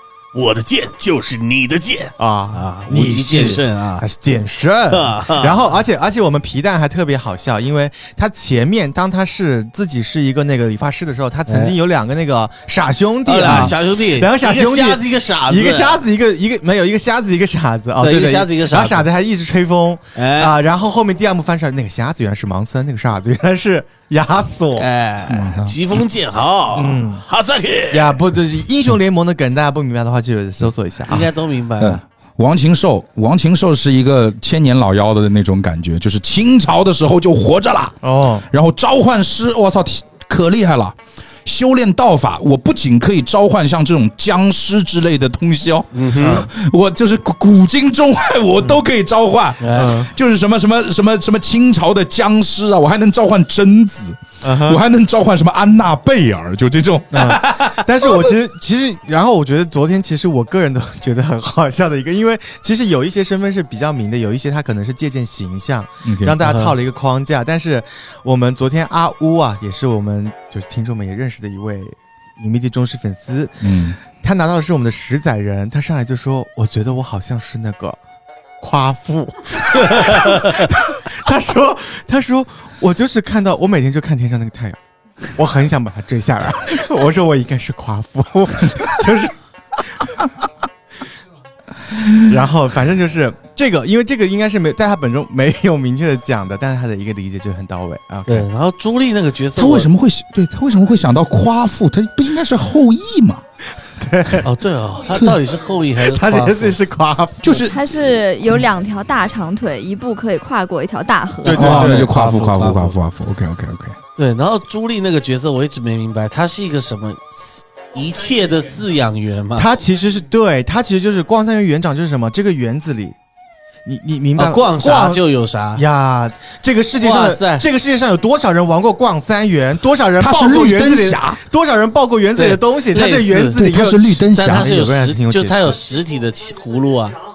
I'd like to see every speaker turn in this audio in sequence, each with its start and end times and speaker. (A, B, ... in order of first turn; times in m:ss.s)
0:00.3-0:04.1 A
0:02.2-0:24.9 B
0:04.9-0:05.6 A
0:11.5-0:11.8 A
0:13.3-0:16.0 A
0:18.0-0:19.1 A
0:20.2-0:20.6 A
0:24.8-0:28.2 A
0:25.3-0:25.8 C
0:26.7-0:27.2 B
0:27.9-0:31.3 B
0:31.1-0:32.0 A
0:31.8-0:38.0 C
0:38.0-0:38.5 B
0:38.5-0:57.7 C
0:45.9-0:46.4 A
0:46.2-0:46.5 B
0:49.6-0:50.0 A
0:49.8-0:50.1 B
0:54.4-0:54.8 B
0:57.1-1:18.0 B
1:06.1-1:06.4 C
1:06.4-1:06.8 A
1:13.6-1:14.0 C
1:18.6-1:30.2 B
1:31.9-1:32.2 C
1:32.3-1:38.5 B
1:38.3-1:39.9 A
1:39.6-1:43.4 C
1:43.9-1:44.5 B
1:44.4-1:46.8 A
1:46.0-1:47.7 B
1:47.4-1:47.8 C
1:47.7-1:51.8 D
1:51.4-1:52.1 B
1:51.5-1:53.0 A
1:51.5-1:54.0 C
1:54.2-1:59.7 A
1:59.6-2:03.2 B
2:03.9-2:15.8 B
2:04.4-2:05.8 A
2:07.0-2:07.7 A
2:10.2-2:11.4 C
2:12.4-2:13.6 A
2:13.5-2:14.7 C
2:14.3-2:17.2 A